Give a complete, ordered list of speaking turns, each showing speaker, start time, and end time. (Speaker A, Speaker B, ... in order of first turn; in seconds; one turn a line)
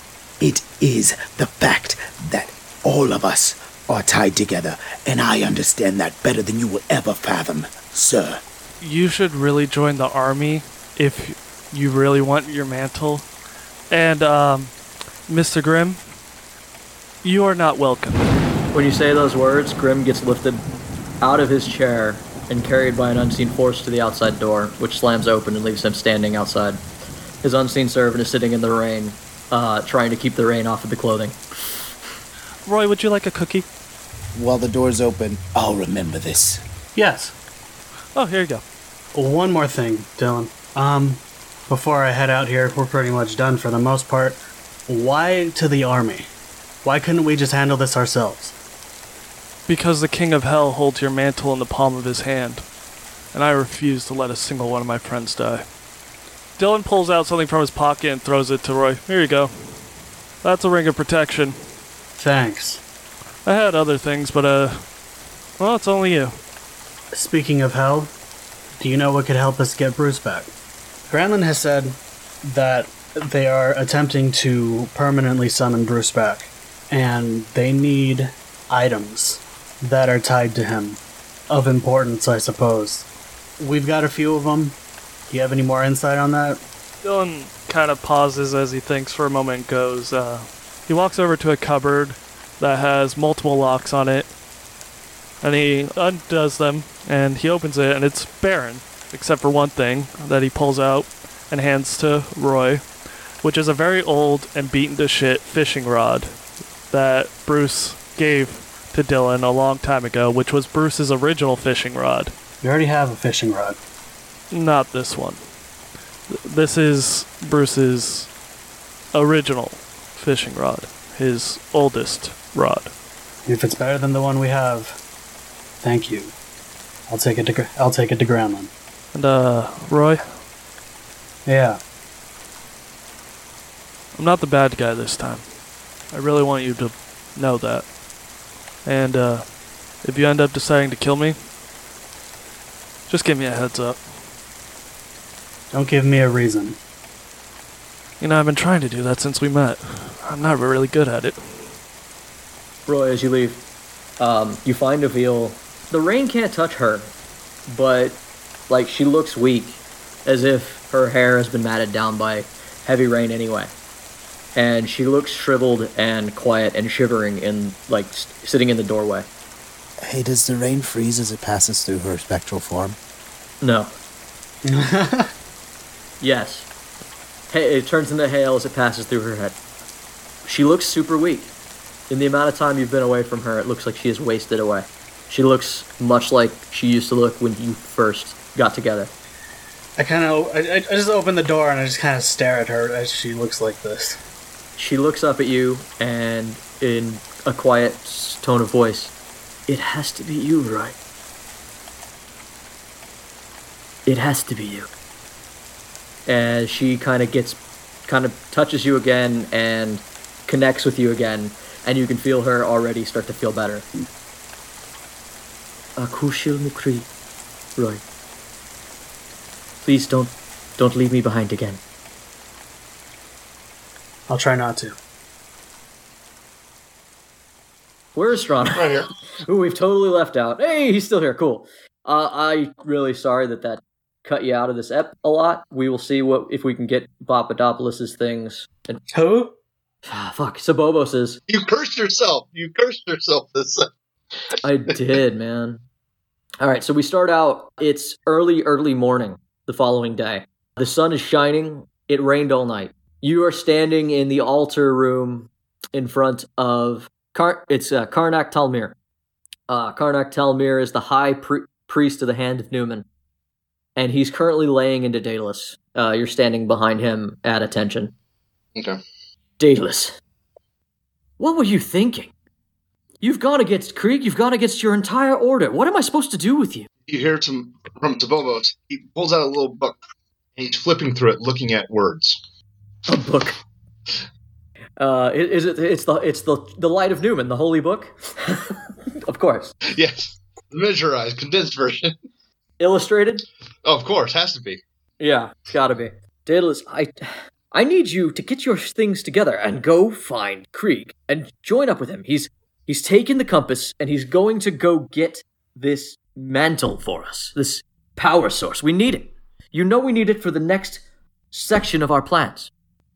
Speaker A: 0.4-8.4
Speaker B: 8.8-13.3
Speaker B: 13.9-14.7
Speaker B: 15.3-16.0
Speaker B: 17.2-18.2
Speaker C: 18.7-20.6
Speaker C: 21.2-26.8
Speaker C: 27.4-31.4
Speaker B: 32.6-33.6
Speaker A: 34.3-36.6
Speaker D: 37.0-37.3
Speaker B: 38.1-38.6
Speaker D: 39.1-46.3
Speaker D: 46.8-48.5
Speaker B: 49.7-52.6
Speaker B: 53.3-55.6
Speaker B: 56.6-59.8
Speaker B: 60.4-61.6
Speaker D: 62.2-62.8
Speaker B: 63.4-64.8
Speaker B: 65.6-66.4
Speaker D: 67.1-68.1
Speaker D: 68.8-70.5
Speaker D: 71.1-83.0
Speaker D: 83.6-84.8
Speaker D: 85.3-86.6
Speaker B: 87.0-94.3
Speaker B: 95.4-102.8
Speaker B: 103.4-106.4
Speaker B: 106.9-112.3
Speaker D: 112.6-113.8
Speaker B: 114.5-115.4
Speaker B: 116.3-118.3
Speaker B: 119.1-122.9
Speaker D: 123.5-124.9
Speaker D: 125.8-126.3
Speaker D: 127.1-128.7
Speaker B: 129.1-130.2
Speaker D: 131.4-131.8
Speaker B: 134.1-135.4
Speaker B: 136.1-137.8
Speaker B: 138.8-139.5
Speaker B: 140.0-141.4
Speaker B: 143.1-144.0
Speaker D: 145.7-146.8
Speaker B: 148.2-151.4
Speaker C: 152.9-153.6
Speaker C: 154.2-157.1
Speaker C: 157.7-163.7
Speaker C: 164.5-169.3
Speaker A: 170.0-173.0
Speaker C: 173.6-173.9
Speaker D: 174.6-175.3
Speaker C: 176.2-176.7
Speaker C: 177.5-179.6
Speaker C: 180.4-181.5
Speaker C: 182.1-189.1
Speaker D: 190.0-194.2
Speaker C: 194.8-199.1
Speaker C: 199.7-200.9
Speaker C: 204.1-204.9
Speaker C: 206.2-213.8
Speaker C: 216.0-217.1
Speaker C: 217.8-218.0
Speaker C: 219.8-221.8
Speaker D: 224.3-224.9
Speaker C: 228.1-239.0
Speaker E: 228.7-229.1
Speaker D: 239.1-239.5
Speaker C: 240.1-241.4
Speaker E: 241.5-243.9
Speaker C: 244.6-245.8
Speaker C: 246.6-258.9
Speaker C: 259.7-263.1
Speaker C: 263.9-268.1
Speaker C: 269.6-270.2
Speaker C: 271.4-272.3
Speaker C: 273.2-276.9
Speaker E: 277.1-280.0
Speaker E: 280.6-282.4
Speaker C: 283.1-283.6
Speaker C: 285.0-289.7
Speaker E: 289.9-292.1
Speaker C: 292.8-293.4
Speaker E: 293.8-294.8
Speaker C: 295.2-312.7